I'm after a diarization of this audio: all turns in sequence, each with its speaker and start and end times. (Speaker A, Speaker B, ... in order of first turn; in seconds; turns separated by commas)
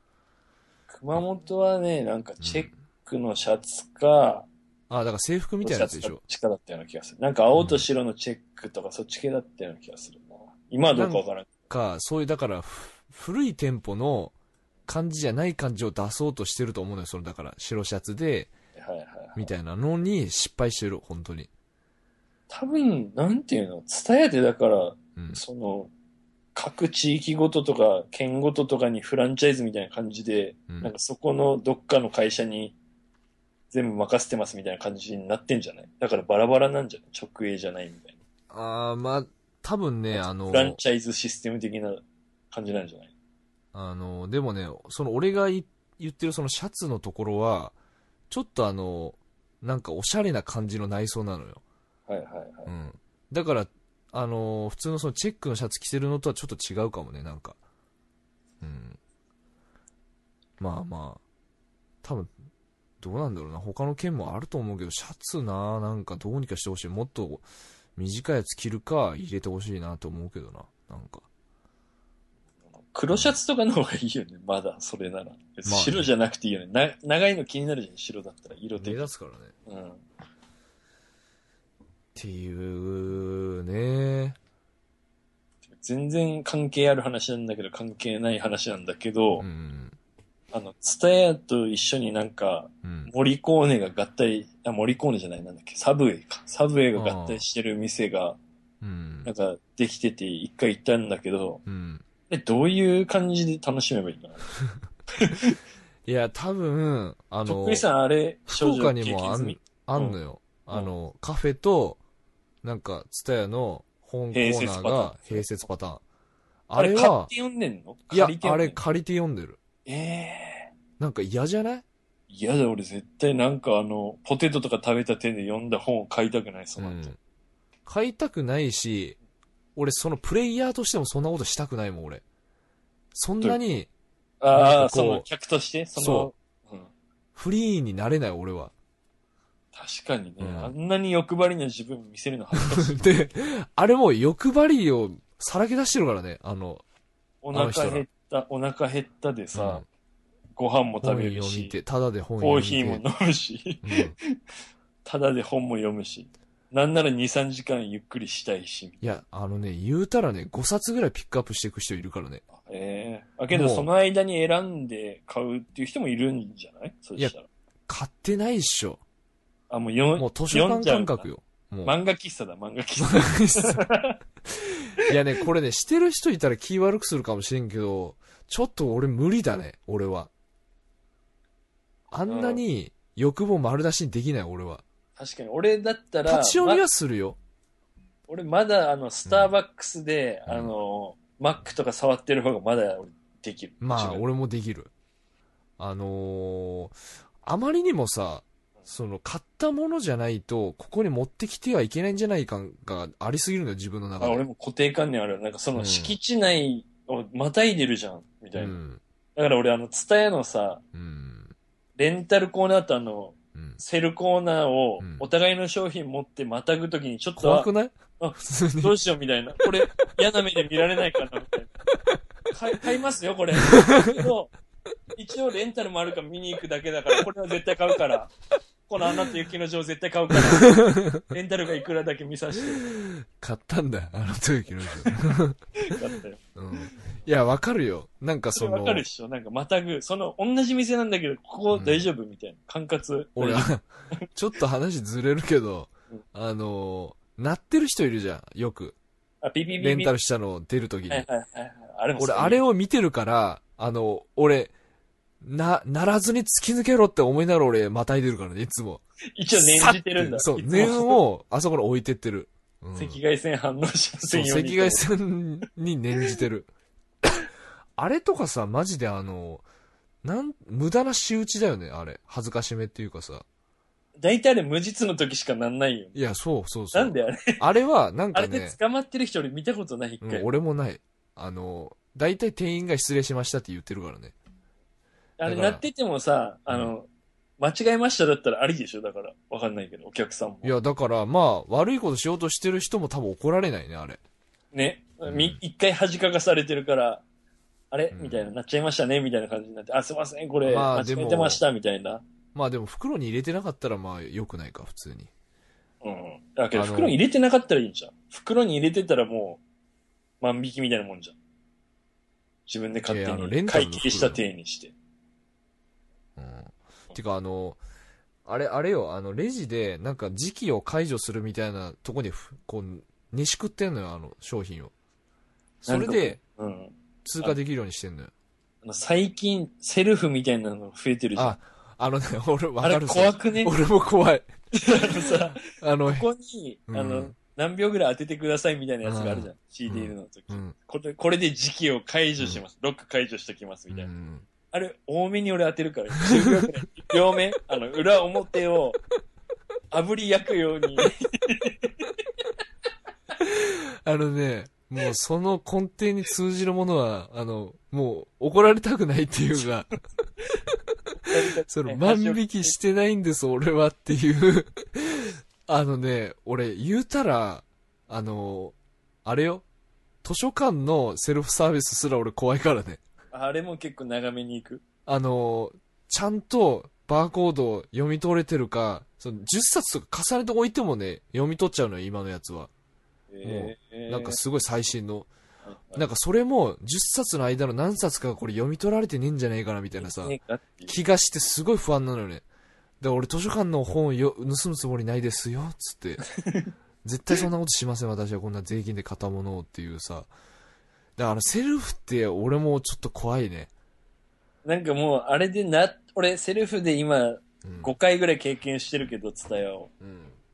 Speaker A: 0.9-4.5, Speaker B: 2.4-2.7, Speaker B: 4.9-6.2, Speaker A: 5.6-11.5, Speaker B: 7.5-7.8, Speaker B: 10.9-14.3, Speaker B: 14.9-18.5, Speaker A: 18.8-19.5, Speaker B: 19.3-21.5, Speaker A: 22.5-25.9, Speaker B: 25.1-25.4, Speaker A: 26.5-32.7, Speaker A: 33.7-38.2, Speaker B: 38.5-40.8, Speaker A: 40.1-43.1, Speaker B: 43.7-47.7, Speaker B: 48.3-51.6, Speaker A: 52.1-52.7, Speaker B: 52.7-57.6, Speaker B: 58.6-59.0, Speaker B: 60.6-61.2, Speaker B: 62.0-62.3, Speaker B: 63.0-71.3, Speaker A: 72.9-79.1, Speaker B: 75.7-76.1, Speaker B: 78.8-79.5, Speaker A: 79.7-80.0, Speaker B: 82.1-84.4, Speaker A: 85.7-89.4, Speaker B: 89.4-90.0, Speaker A: 90.5-98.4, Speaker B: 92.8-93.1, Speaker B: 96.9-97.4, Speaker B: 98.8-99.3, Speaker A: 99.2-101.6, Speaker B: 101.7-102.0, Speaker A: 102.3-104.5, Speaker A: 105.1-105.6, Speaker B: 106.0-107.8, Speaker A: 107.5-110.2, Speaker B: 108.5-112.0, Speaker B: 112.6-116.0, Speaker A: 114.3-115.5, Speaker B: 116.7-117.3, Speaker A: 116.8-118.8, Speaker B: 118.1-119.6, Speaker A: 119.8-120.7, Speaker B: 121.0-121.8, Speaker A: 122.3-127.1, Speaker B: 126.8-127.2, Speaker B: 127.8-129.2, Speaker B: 129.8-132.2, Speaker B: 133.1-133.9, Speaker A: 134.4-136.9, Speaker B: 134.5-135.3, Speaker B: 135.9-136.3, Speaker B: 137.3-138.7, Speaker A: 139.7-143.0, Speaker B: 140.4-140.7, Speaker B: 142.6-146.8, Speaker A: 147.4-149.8, Speaker B: 147.5-148.1, Speaker B: 149.5-149.8, Speaker A: 150.6-151.8, Speaker B: 151.0-153.0, Speaker A: 152.4-154.4, Speaker B: 153.8-154.1, Speaker A: 155.0-159.0, Speaker B: 159.0-162.4, Speaker A: 162.6-167.5, Speaker B: 163.5-163.9, Speaker B: 167.9-169.0, Speaker A: 169.7-171.3, Speaker B: 170.2-171.9, Speaker A: 171.8-174.2, Speaker B: 173.0-173.8, Speaker B: 174.5-180.3, Speaker B: 182.1-184.8, Speaker A: 182.2-182.6, Speaker A: 185.2-186.8, Speaker B: 186.3-187.4, Speaker A: 188.3-194.2, Speaker B: 189.2-189.5, Speaker B: 190.5-190.7, Speaker B: 193.8-194.9, Speaker B: 195.8-204.4, Speaker A: 204.2-208.8, Speaker B: 205.8-206.2, Speaker B: 208.6-209.0, Speaker A: 209.3-210.8, Speaker B: 210.9-211.5, Speaker A: 212.0-221.7, Speaker B: 215.0-215.3, Speaker B: 217.4-218.9, Speaker B: 219.6-219.9, Speaker A: 222.5-224.5, Speaker B: 223.6-224.3, Speaker A: 225.2-228.3, Speaker A: 228.9-232.9, Speaker B: 230.3-231.2, Speaker B: 232.8-236.0, Speaker A: 235.8-236.9, Speaker B: 236.5-239.0, Speaker A: 238.5-244.2, Speaker B: 241.7-242.1, Speaker B: 243.3-248.9, Speaker A: 249.4-250.1, Speaker B: 249.8-251.3, Speaker A: 251.1-252.6, Speaker B: 252.2-254.7, Speaker B: 255.4-259.0, Speaker A: 259.4-261.2, Speaker B: 259.5-263.2, Speaker A: 262.9-265.1, Speaker B: 264.3-266.7, Speaker B: 267.2-269.6, Speaker B: 270.2-273.4, Speaker A: 274.2-276.2, Speaker B: 276.1-278.8, Speaker A: 276.9-277.6, Speaker A: 278.3-280.5, Speaker B: 280.2-284.3, Speaker A: 285.4-287.1, Speaker B: 285.4-285.8, Speaker A: 287.6-290.7, Speaker B: 290.6-294.2, Speaker A: 294.7-297.2, Speaker B: 295.3-295.6, Speaker A: 297.9-302.2, Speaker B: 298.1-298.5, Speaker B: 300.6-301.6, Speaker B: 302.5-305.3, Speaker A: 306.0-309.6, Speaker B: 306.7-307.2, Speaker A: 310.4-311.4, Speaker A: 312.7-314.9, Speaker B: 313.1-314.4, Speaker B: 316.4-317.8, Speaker B: 318.4-324.9, Speaker B: 325.8-326.4, Speaker A: 325.9-327.6, Speaker B: 327.2-328.3, Speaker A: 328.8-331.6, Speaker B: 331.4-334.5, Speaker A: 332.8-333.7, Speaker A: 334.7-344.1, Speaker B: 335.6-336.3, Speaker B: 336.9-337.3, Speaker B: 339.0-340.7, Speaker B: 343.9-344.5, Speaker A: 344.7-349.0, Speaker A: 349.9-352.1, Speaker B: 353.4-359.9, Speaker A: 361.3-362.7, Speaker B: 361.7-369.6, Speaker B: 370.2-373.0, Speaker A: 373.3-374.8, Speaker B: 375.1-382.7, Speaker A: 383.3-384.4, Speaker B: 383.4-385.3, Speaker A: 385.6-386.1, Speaker B: 385.9-390.3, Speaker A: 390.0-391.0, Speaker B: 390.9-392.4, Speaker B: 393.0-396.2, Speaker A: 396.4-396.7, Speaker B: 397.0-400.3, Speaker B: 401.2-403.7, Speaker A: 404.6-409.9, Speaker B: 407.6-407.9, Speaker B: 410.0-410.4